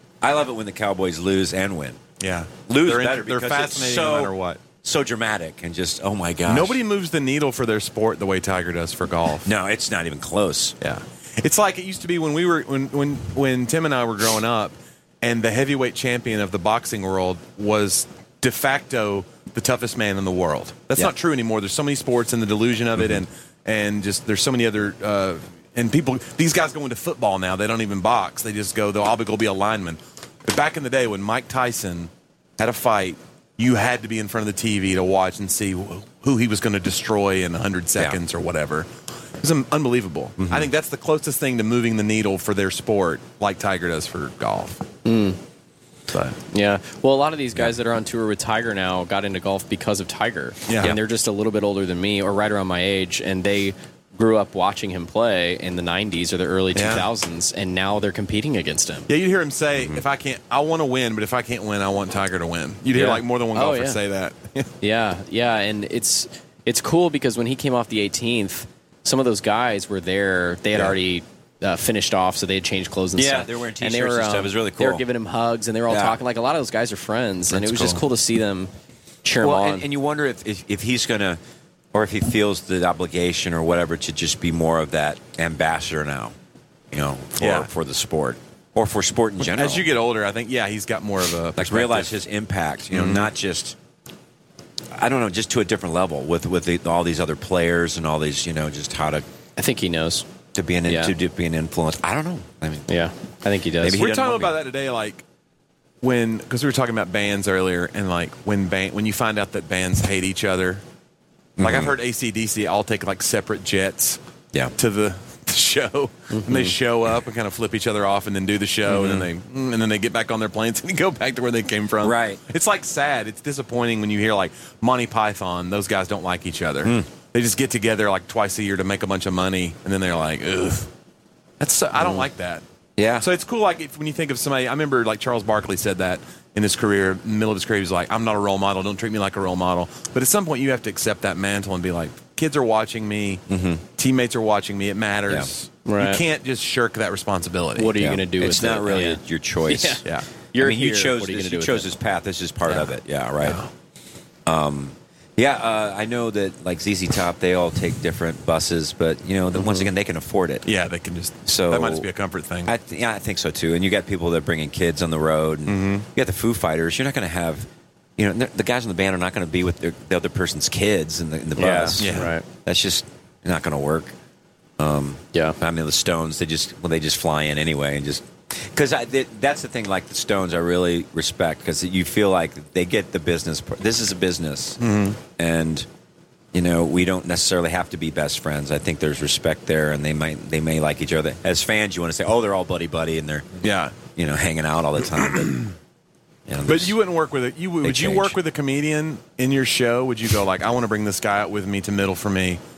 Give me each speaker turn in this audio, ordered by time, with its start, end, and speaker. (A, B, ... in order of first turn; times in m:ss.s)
0:00.2-0:02.0 A
0:02.2-0:04.6 B
0:02.7-0:06.8 A
0:06.5-0:09.5 B
0:09.4-0:10.7 A
0:10.8-0:38.9 B
0:39.4-0:44.8 B
0:40.4-0:40.7 A
0:45.0-0:45.4 C
0:46.1-0:46.4 B
0:46.5-0:59.1 C
0:50.7-0:50.9 B
0:56.7-0:57.1 B
0:59.1-1:04.7 B
0:59.8-1:00.0 A
1:02.9-1:04.0 C
1:04.8-1:18.7 C
1:13.1-1:15.0 A
1:15.9-1:16.2 A
1:17.6-1:17.9 B
1:17.7-1:18.0 A
1:19.2-1:19.8 C
1:19.4-1:21.4 A
1:21.9-1:26.3 A
1:26.9-1:29.9 A
1:27.4-1:27.7 B
1:29.4-1:32.2 B
1:31.6-1:33.8 A
1:32.9-1:33.3 B
1:34.9-1:39.2 A
1:39.6-1:40.2 C
1:40.5-1:42.9 A
1:40.8-1:41.1 C
1:42.9-1:44.0 C
1:43.8-1:44.6 A
1:43.9-1:45.2 B
1:46.0-1:50.8 B
1:51.6-1:51.9 A
1:51.6-1:54.2 B
1:54.8-2:10.9 B
1:56.3-1:56.7 C
1:58.8-1:59.3 A
2:02.0-2:02.4 A
2:06.8-2:07.1 A
2:11.6-2:12.6 B
2:12.0-2:12.3 A
2:13.0-2:13.3 A
2:13.2-2:23.4 B
2:23.5-2:23.8 A
2:24.0-2:28.0 B
2:25.8-2:26.2 C
2:27.8-2:31.9 C
2:28.0-2:30.0 A
2:30.6-2:33.6 A
2:33.4-2:33.7 B
2:34.4-2:40.7 A
2:40.6-2:42.7 B
2:41.4-2:42.1 A
2:42.6-2:54.1 A
2:45.7-2:46.1 B
2:51.6-2:52.4 C
2:52.0-2:52.3 B
2:54.8-3:05.9 A
3:04.8-3:05.2 B
3:06.5-3:13.5 A
3:13.6-3:14.0 B
3:14.0-3:15.7 A
3:15.2-3:15.6 B
3:16.5-3:17.0 A
3:16.6-3:22.6 B
3:17.8-3:18.4 A